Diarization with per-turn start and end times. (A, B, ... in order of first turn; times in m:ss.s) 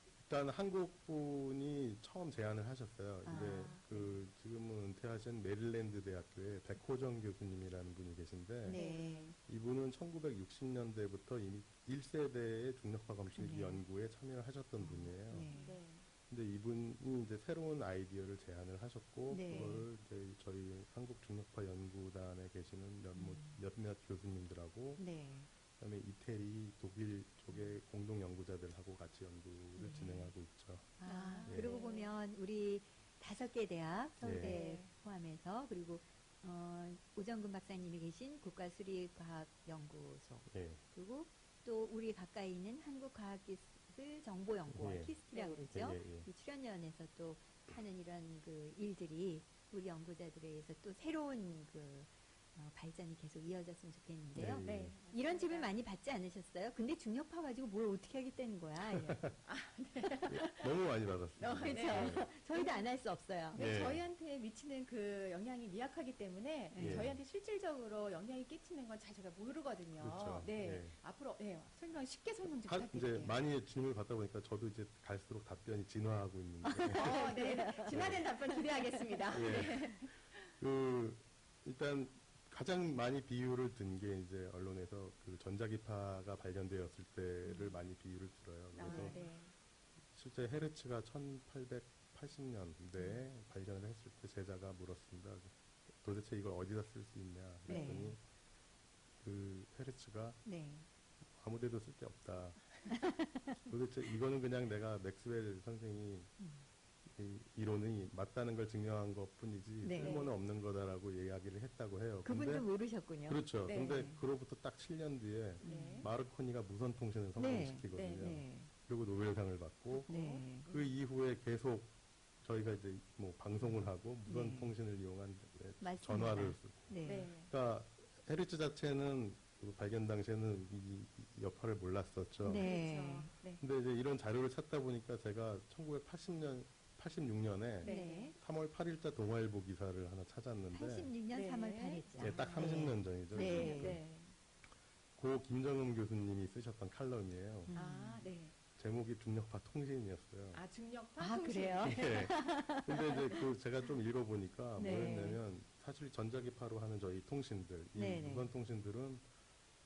0:00.2-0:08.8 A
0:03.2-0:04.2 B
0:03.3-0:03.9 C
0:08.6-0:09.3 B
0:08.7-0:09.3 C
0:09.4-0:15.5 A
0:13.2-0:13.8 B
0:14.8-0:15.8 B
0:15.5-0:16.1 C
0:16.3-0:25.0 A
0:19.3-0:19.8 B
0:23.1-0:23.6 B
0:25.0-0:25.5 B
0:25.8-0:31.7 A
0:29.8-0:30.3 B
0:31.0-0:59.4 B
0:31.0-0:32.1 C
0:34.2-0:34.5 A
0:34.4-0:34.9 C
0:40.5-0:40.8 A
0:44.8-0:45.1 A
0:45.3-0:45.7 C
0:45.7-0:46.3 A
0:54.3-0:54.9 A
0:54.6-0:55.7 C
0:58.9-0:59.4 A
0:59.4-1:00.7 C
1:00.3-1:02.2 A
1:01.4-1:02.8 C
1:01.6-1:03.7 B
1:03.5-1:13.4 C
1:03.6-1:04.0 A
1:06.7-1:07.1 B
1:06.8-1:07.2 A
1:10.0-1:11.0 A
1:12.7-1:17.1 A
1:16.6-1:18.3 B
1:16.9-1:20.1 C
1:17.8-1:18.3 A
1:18.8-1:19.8 B
1:19.3-1:29.2 A
1:27.4-1:27.8 B
1:28.7-1:29.5 C
1:28.8-1:29.3 B
1:30.1-1:38.2 A
1:33.0-1:33.2 B
1:37.7-1:38.0 C
1:37.7-1:38.2 B
1:39.2-1:40.4 A
1:40.4-1:40.9 B
1:41.4-1:42.8 A
1:42.9-1:43.6 B
1:43.6-1:46.3 A
1:46.4-1:46.6 B
1:47.0-1:52.7 A
1:49.8-1:50.2 B
1:50.0-1:50.3 C
1:52.2-1:54.2 B
1:53.2-2:00.1 A
1:53.7-1:54.0 C
1:55.6-1:56.1 B
1:55.6-1:56.1 C
1:57.4-1:58.7 B
1:57.9-1:58.3 C
1:59.9-2:00.9 C
2:00.1-2:00.7 B
2:00.6-2:01.9 A
2:02.4-2:12.7 A
2:03.6-2:04.7 B
2:05.8-2:07.3 B
2:07.0-2:07.5 C
2:12.4-2:13.3 B
2:12.5-2:13.6 C
2:13.6-2:21.1 A
2:17.8-2:18.3 C
2:17.8-2:18.3 B
2:20.7-2:24.0 B
2:21.3-2:24.3 C
2:22.2-2:24.0 A
2:25.2-2:27.7 A
2:27.6-2:28.3 B
2:27.7-2:28.5 C
2:28.8-2:30.6 A
2:30.5-2:32.2 C
2:31.2-2:33.5 B
2:31.8-2:39.2 A
2:34.8-2:35.4 B
2:34.8-2:35.3 C
2:37.9-2:38.5 B